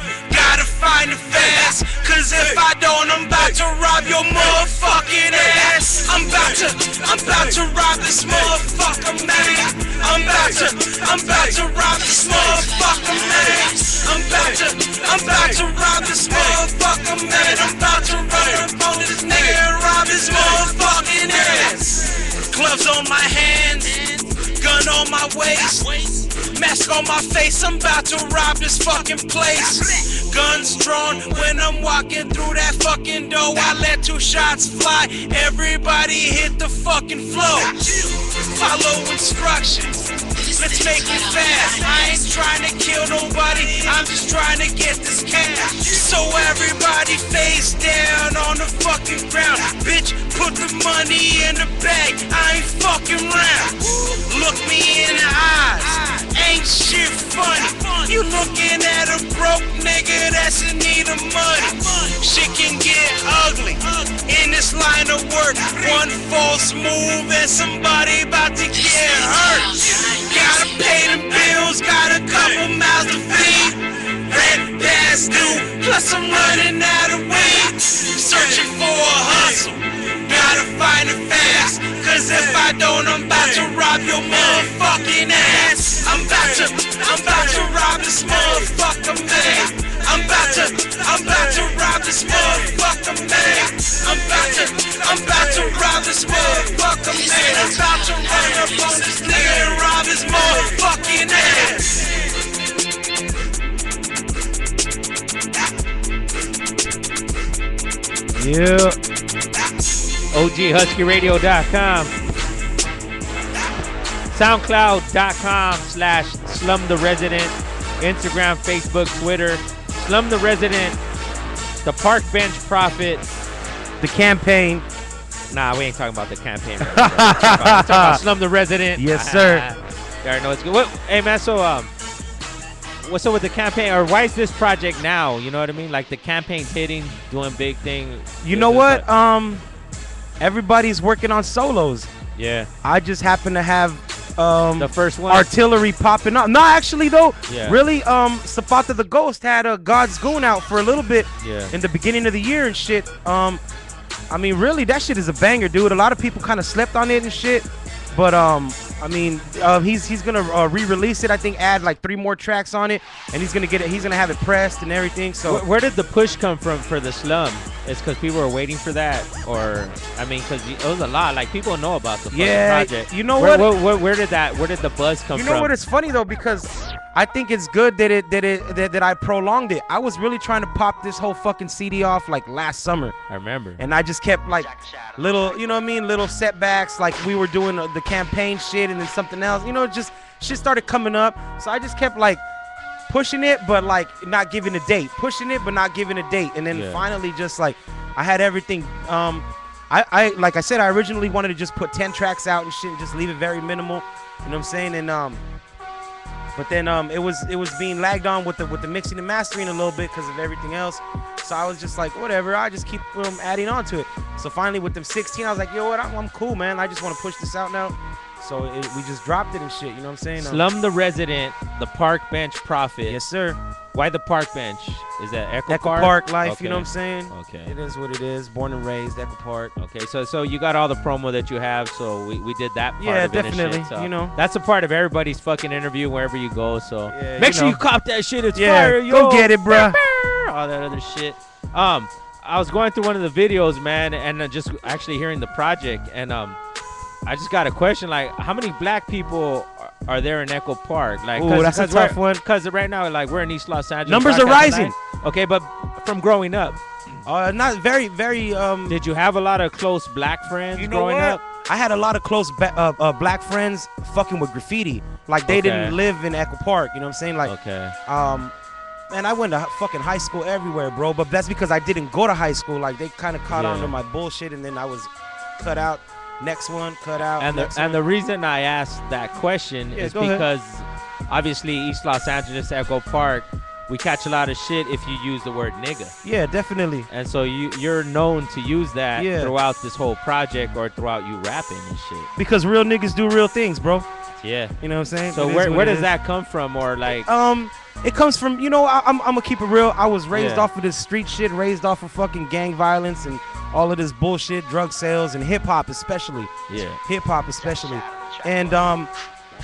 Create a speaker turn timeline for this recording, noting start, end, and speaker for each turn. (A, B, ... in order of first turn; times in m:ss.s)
0:00.3-1:42.0 A
0:06.2-0:07.6 B
0:09.8-0:11.7 B
0:12.2-0:15.7 B
0:18.2-0:19.7 B
1:39.3-1:39.8 B
1:48.4-1:49.0 B
1:50.3-1:52.2 C
1:54.3-2:01.0 C
2:01.8-2:03.2 C
2:04.0-2:04.8 B
2:05.5-2:11.9 C
2:06.8-2:08.2 B
2:09.0-2:09.7 B
2:13.0-2:19.0 C
2:18.4-2:19.6 B
2:20.4-2:22.1 B
2:22.4-2:22.7 C
2:22.8-2:33.6 B
2:24.8-2:25.5 C
2:27.5-2:27.8 C
2:31.4-2:31.8 C
2:34.3-2:45.6 B
2:45.5-2:55.8 C
2:52.3-2:53.7 B
2:55.3-3:03.2 B
3:03.3-3:03.8 C
3:03.8-3:12.4 B
3:13.1-3:25.4 B
3:16.7-3:17.1 C
3:26.6-3:40.6 B
3:40.4-3:43.2 C
3:43.1-3:43.6 B
3:43.9-3:47.7 C
3:45.7-3:49.7 B
3:49.8-4:06.6 C
3:53.0-3:54.3 B
3:57.1-3:57.8 B
3:58.6-4:00.0 B
4:07.3-4:16.8 C
4:11.4-4:12.4 B
4:14.1-4:15.0 B
4:17.3-4:19.0 B
4:18.9-4:21.4 C
4:20.8-4:27.5 B
4:25.5-4:26.0 C
4:27.4-4:28.0 C
4:28.1-4:28.5 B
4:29.1-4:38.0 B
4:33.5-4:33.9 C
4:37.4-4:46.2 C
4:40.0-4:40.5 B
4:46.2-4:47.1 B
4:47.1-4:52.3 C
4:49.2-4:49.5 B
4:52.4-4:54.1 B
4:54.4-4:54.8 C
4:54.8-4:56.1 B
4:55.3-4:57.3 C
4:57.3-5:06.5 B
5:00.3-5:00.7 C
5:06.7-5:07.0 C
5:07.0-5:09.1 B